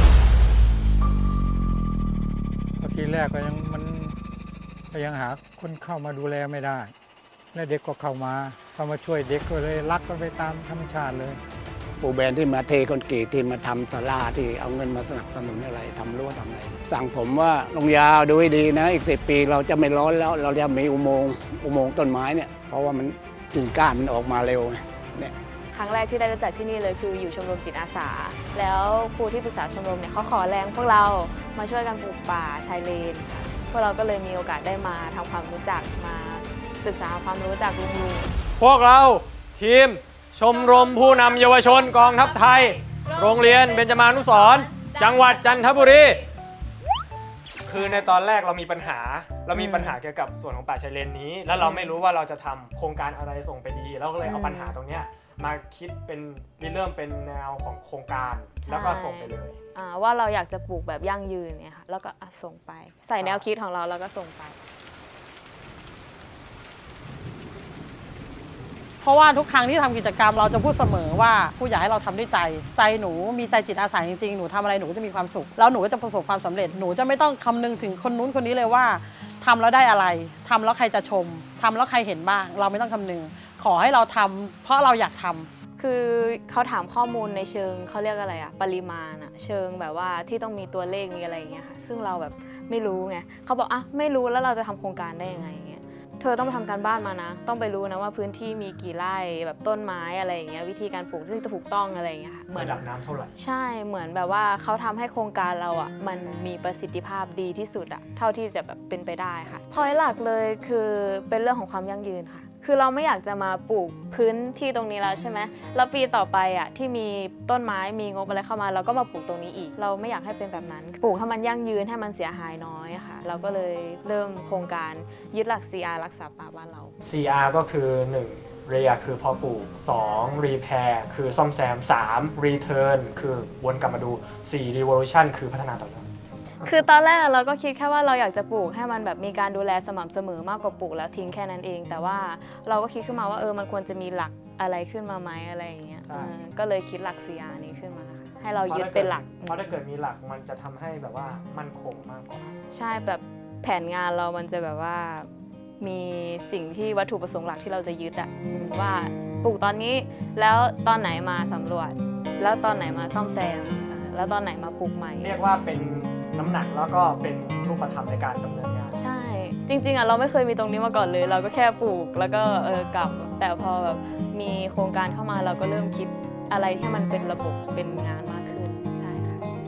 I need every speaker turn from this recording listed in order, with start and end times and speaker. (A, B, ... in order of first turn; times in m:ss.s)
0:02.8-0:04.2 A
0:04.9-0:06.9 A
0:07.5-0:11.4 A
0:12.0-0:25.3 B
0:25.7-0:38.3 C
0:38.6-0:46.2 D
0:47.6-0:59.6 D
0:47.7-0:48.1 C
0:49.5-0:50.0 C
0:51.6-0:52.0 C
0:54.2-0:54.8 C
0:58.6-1:04.6 C
1:03.2-1:03.4 D
1:09.0-1:25.5 E
1:25.8-1:42.8 C
1:42.5-1:43.3 D
1:43.4-2:06.9 C
2:07.0-2:16.1 D
2:16.6-2:29.6 C
2:26.0-2:26.4 D
2:28.7-2:32.5 D
2:32.7-2:35.3 C
2:35.8-2:45.4 C
2:45.2-2:48.9 D
2:48.9-2:59.4 C